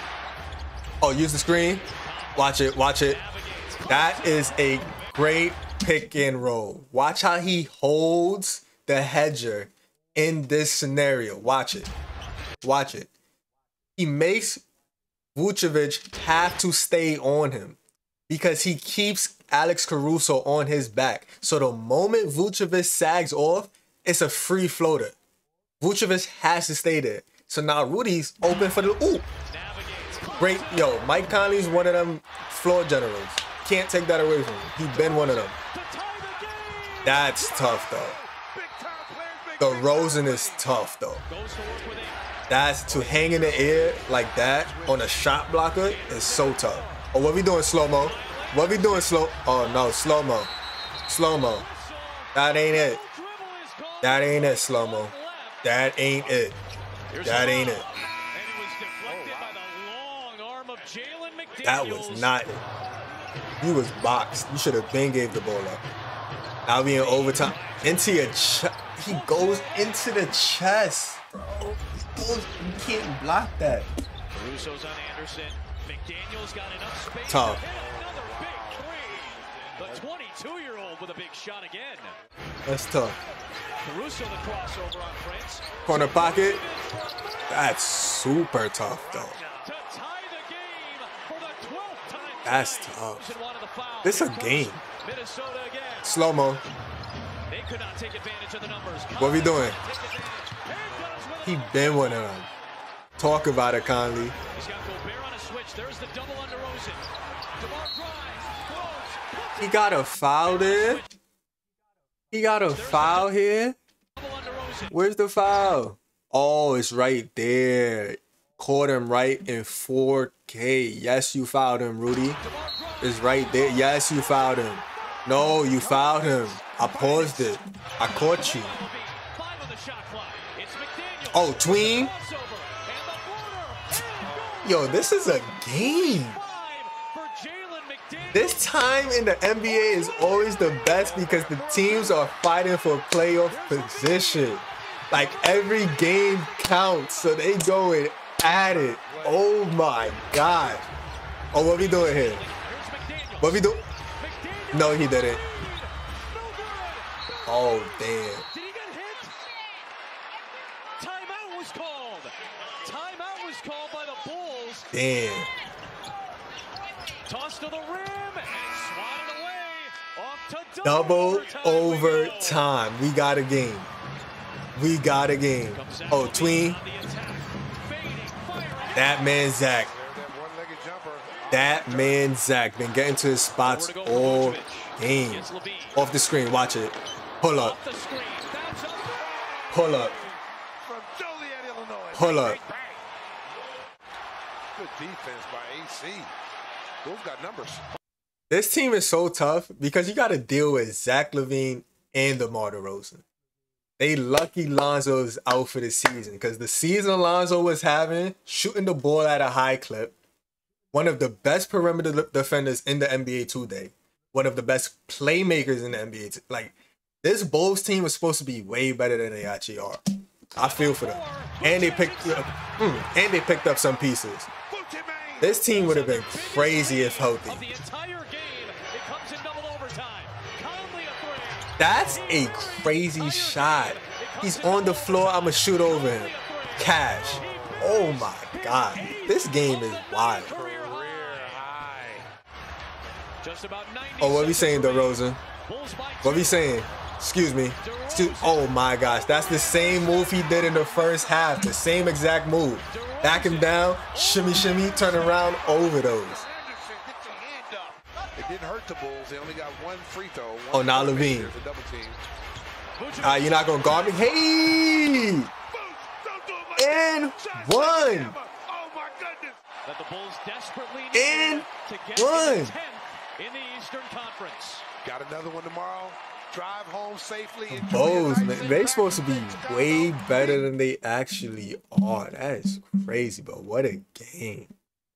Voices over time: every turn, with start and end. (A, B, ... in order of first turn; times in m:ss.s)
0:01.0-0:01.8 A
0:02.0-0:05.3 B
0:02.4-0:03.2 A
0:03.9-0:11.9 A
0:12.6-0:13.1 A
0:14.0-0:14.6 A
0:15.4-0:17.8 A
0:18.3-0:25.2 A
0:25.8-0:29.3 A
0:29.5-0:31.6 B
0:30.4-0:35.6 A
0:34.9-0:38.0 B
0:37.0-0:38.2 A
0:38.4-0:40.7 C
0:39.6-0:41.2 A
0:41.3-0:42.2 B
0:42.5-0:50.5 A
0:42.9-0:44.0 B
0:43.3-0:45.4 C
0:45.8-0:47.1 B
0:48.0-0:49.2 B
0:51.1-0:51.7 A
0:51.4-0:55.7 B
0:52.3-0:53.0 A
0:54.0-0:56.6 A
0:57.1-1:02.3 B
0:57.2-0:57.9 A
0:59.1-0:59.6 C
1:01.6-1:02.6 A
1:03.6-1:05.8 A
1:06.7-1:13.9 A
1:06.9-1:10.8 B
1:14.3-1:22.2 B
1:17.3-1:17.6 A
1:17.6-1:19.0 C
1:19.8-1:20.1 C
1:22.7-1:23.2 A
1:23.8-1:27.4 B
1:25.9-1:26.6 A
1:27.5-1:29.4 A
1:29.6-1:36.2 B
1:32.4-1:33.3 A
1:34.0-1:34.8 A
1:36.0-1:36.6 A
1:37.5-1:42.0 B
1:39.2-1:39.8 A
1:41.4-1:42.5 A
1:43.2-1:44.4 A
1:44.5-1:51.1 B
1:49.6-1:51.0 A
1:52.3-1:53.8 A
1:52.7-1:53.4 B
1:54.2-1:55.0 B
1:54.9-2:02.4 A
2:02.4-2:03.8 B
2:03.0-2:08.8 A
2:05.8-2:06.1 C
2:06.1-2:06.7 B
2:06.8-2:07.6 C
2:08.2-2:15.2 B
2:11.3-2:12.1 A
2:14.3-2:14.6 C
2:14.6-2:16.4 A
2:16.0-2:18.6 B
2:18.3-2:30.8 A
2:20.8-2:22.2 C
2:23.5-2:26.3 B
2:28.5-2:30.8 C
2:31.5-2:32.4 A
2:31.8-2:33.7 B
2:33.4-2:33.8 A
2:34.2-2:37.6 B
2:34.7-2:35.4 A
2:37.5-2:38.5 A
2:38.5-2:39.4 B
2:41.0-2:44.9 B
2:44.9-2:45.5 A
2:47.3-2:52.7 B
2:50.8-2:53.9 A
2:54.8-2:56.8 A
2:55.7-2:59.3 B
2:58.9-2:59.9 A
2:59.7-3:02.2 C
3:01.5-3:07.8 A
3:03.6-3:06.0 B
3:07.5-3:10.4 B
3:09.7-3:10.2 A
3:10.8-3:13.0 C
3:12.1-3:12.6 A
3:14.8-3:16.3 C
3:17.0-3:17.9 C
3:18.5-3:23.2 A
3:24.0-3:30.2 A
3:30.9-3:40.0 A
3:40.6-3:44.5 A
3:40.6-3:42.6 B
3:44.7-3:45.6 C
3:45.4-3:47.7 A
3:45.7-4:01.6 B
3:51.8-4:00.5 A
3:57.2-3:58.0 C
4:00.4-4:02.3 C
4:03.4-4:06.7 B
4:04.2-4:05.4 A
4:06.2-4:16.4 A
4:07.8-4:11.7 B
4:12.9-4:15.6 B
4:16.2-4:22.2 C
4:20.7-4:21.5 A
4:23.0-4:24.4 B
4:23.2-4:25.5 A
4:25.7-4:29.6 C
4:26.8-4:28.4 A
4:29.8-4:34.9 B
4:31.1-4:32.8 A
4:35.0-4:40.7 C
4:37.7-4:44.7 A